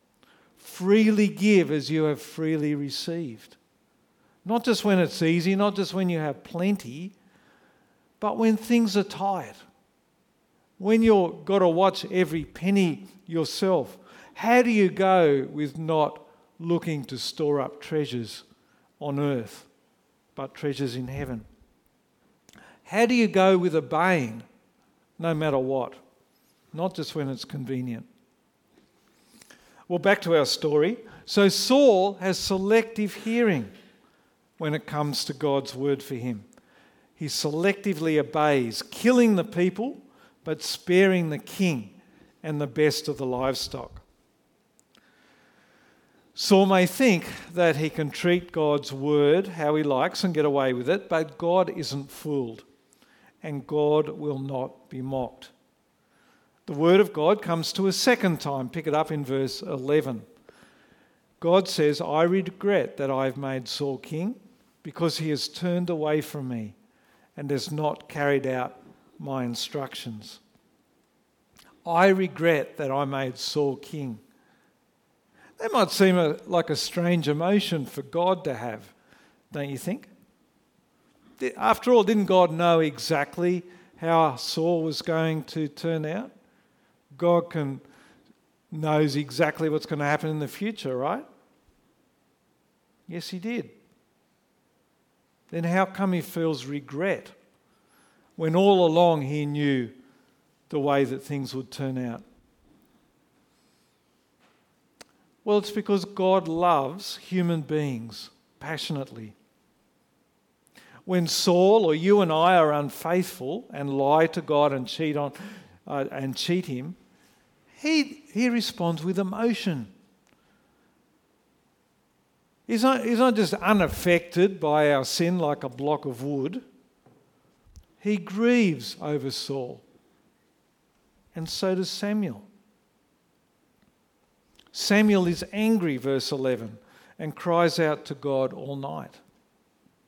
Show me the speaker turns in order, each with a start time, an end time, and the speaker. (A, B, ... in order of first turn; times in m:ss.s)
0:00.6-0:03.6 A
0:04.4-0:07.1 A
0:08.2-0:09.6 A
0:10.8-0:18.4 A
0:19.0-0:19.7 A
0:20.4-0:21.4 A
0:22.8-0:24.5 A
0:25.2-0:26.0 A
0:26.7-0:28.1 A
0:29.9-0:33.7 A
0:34.6-0:36.5 A
0:37.2-0:44.0 A
0:46.4-0:52.6 A
0:53.4-0:55.5 A
0:56.6-1:00.2 A
1:01.4-1:06.8 A
1:07.4-1:10.4 A
1:11.8-1:14.2 A
1:15.6-1:18.9 A
1:19.5-1:20.1 A
1:21.4-1:26.3 A
1:27.1-1:27.8 A
1:28.7-1:31.2 A
1:33.1-1:33.7 A
1:35.5-1:37.3 A
1:38.4-1:39.9 A
1:40.7-1:42.2 A
1:45.4-1:49.4 A
1:51.0-1:57.0 A
1:57.8-1:59.9 A
2:02.7-2:06.6 A
2:08.0-2:09.8 A
2:11.4-2:12.5 A
2:14.7-2:19.2 A